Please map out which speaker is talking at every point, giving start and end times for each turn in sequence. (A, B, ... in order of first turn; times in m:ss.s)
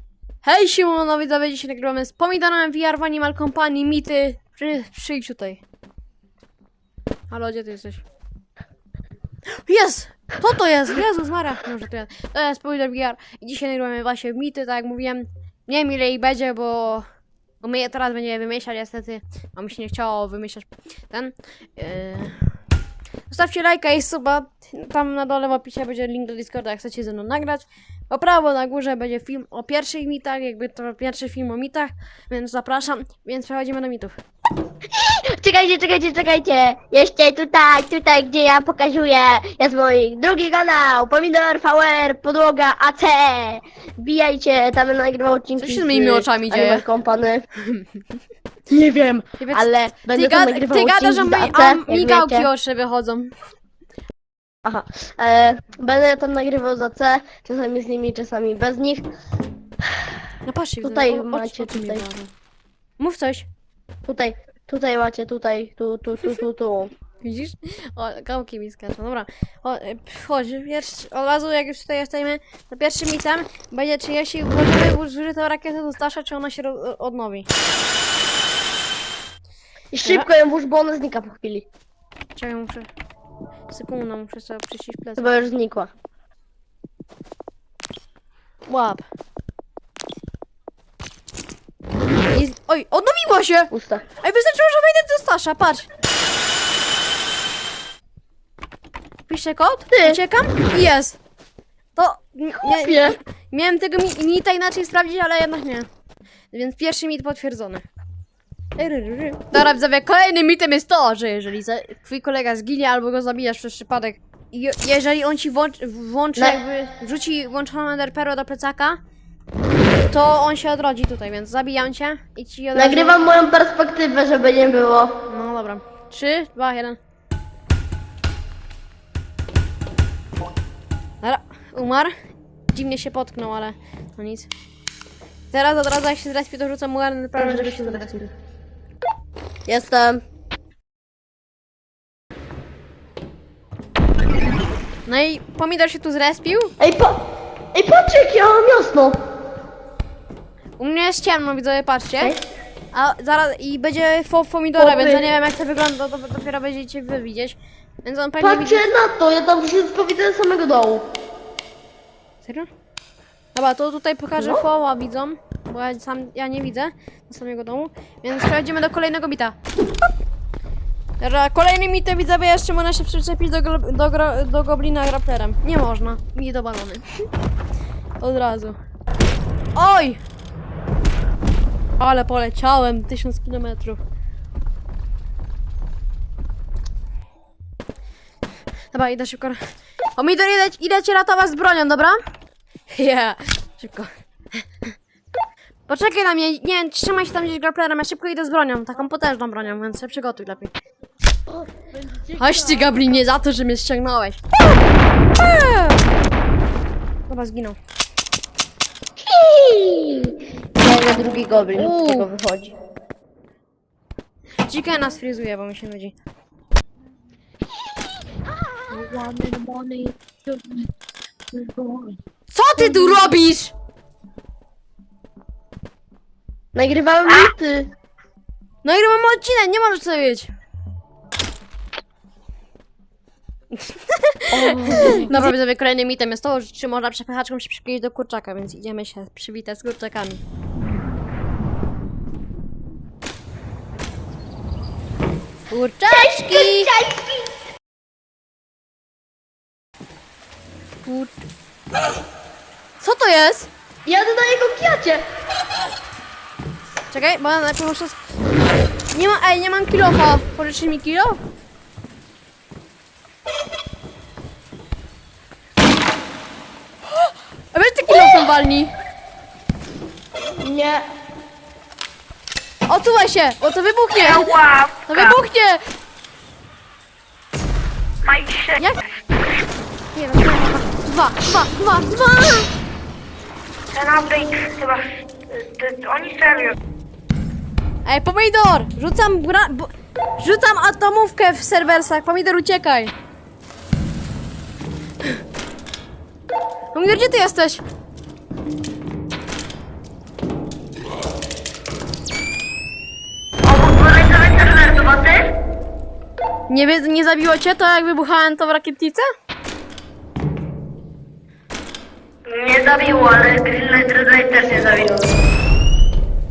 0:00.4-0:05.6 A
0:07.3-0:08.0 A
0:09.6-0:17.1 A
0:17.6-0:22.5 A
0:23.3-0:34.2 A
0:34.9-0:47.5 B
0:45.6-0:46.9 A
0:47.6-0:48.0 A
0:48.7-0:52.5 B
0:49.4-0:53.4 A
0:54.6-0:59.1 B
1:00.4-1:02.3 A
1:00.8-1:02.1 B
1:03.0-1:03.5 A
1:04.1-1:06.9 B
1:07.2-1:17.5 A
1:19.9-1:21.7 B
1:22.4-1:22.9 A
1:23.7-1:25.4 A
1:25.2-1:25.9 B
1:28.7-1:29.0 A
1:32.3-1:35.9 A
1:33.7-1:34.0 B
1:39.3-1:41.2 A
1:39.9-1:40.2 B
1:42.0-1:45.9 A
1:42.6-1:43.2 B
1:46.5-1:47.8 A
1:48.8-1:59.0 A
2:00.1-2:03.2 A
2:02.8-2:05.1 B
2:05.3-2:07.0 A
2:11.2-2:12.1 A
2:12.7-2:14.5 A
2:15.5-2:18.3 A
2:17.4-2:18.1 B
2:19.7-2:20.2 B
2:25.1-2:26.8 A
2:26.8-2:27.2 B
2:27.7-2:29.2 B
2:30.8-2:32.4 A
2:32.9-2:38.9 A
2:34.8-2:35.3 B
2:38.4-2:41.1 B
2:42.4-2:42.7 A
2:43.6-2:49.6 A
2:44.4-2:44.6 B
2:51.2-2:57.0 A
2:58.2-2:58.8 A
2:59.8-3:00.2 A
3:02.0-3:04.0 A
3:08.9-3:09.6 A
3:10.2-3:12.2 A
3:12.9-3:14.9 A
3:15.9-3:20.7 A
3:21.5-3:23.2 B
3:22.4-3:24.4 A
3:25.4-3:26.0 A
3:27.3-3:27.8 A
3:29.2-3:32.8 B
3:31.8-3:32.3 A
3:34.7-3:36.2 A
3:38.8-3:40.8 B
3:41.5-3:42.2 B
3:42.5-3:43.7 A
3:42.8-3:43.2 B
3:46.8-3:47.9 B
3:48.8-3:50.5 A
3:53.7-4:00.4 A
3:54.5-3:55.5 B
4:05.7-4:06.9 A
4:06.1-4:07.5 B
4:11.0-4:11.3 A
4:13.0-4:13.7 A
4:14.0-4:15.2 B
4:17.1-4:18.2 A
4:19.1-4:21.4 A
4:27.1-4:28.9 A
4:28.1-4:28.5 B
4:30.5-4:31.1 B
4:32.9-4:35.8 A
4:34.2-4:35.4 C
4:38.2-4:38.8 C
4:40.1-4:42.7 A
4:43.9-4:46.8 C
4:48.1-4:53.1 A
4:56.9-4:57.8 A
5:03.6-5:05.5 B
5:06.7-5:09.3 A
5:12.5-5:15.3 B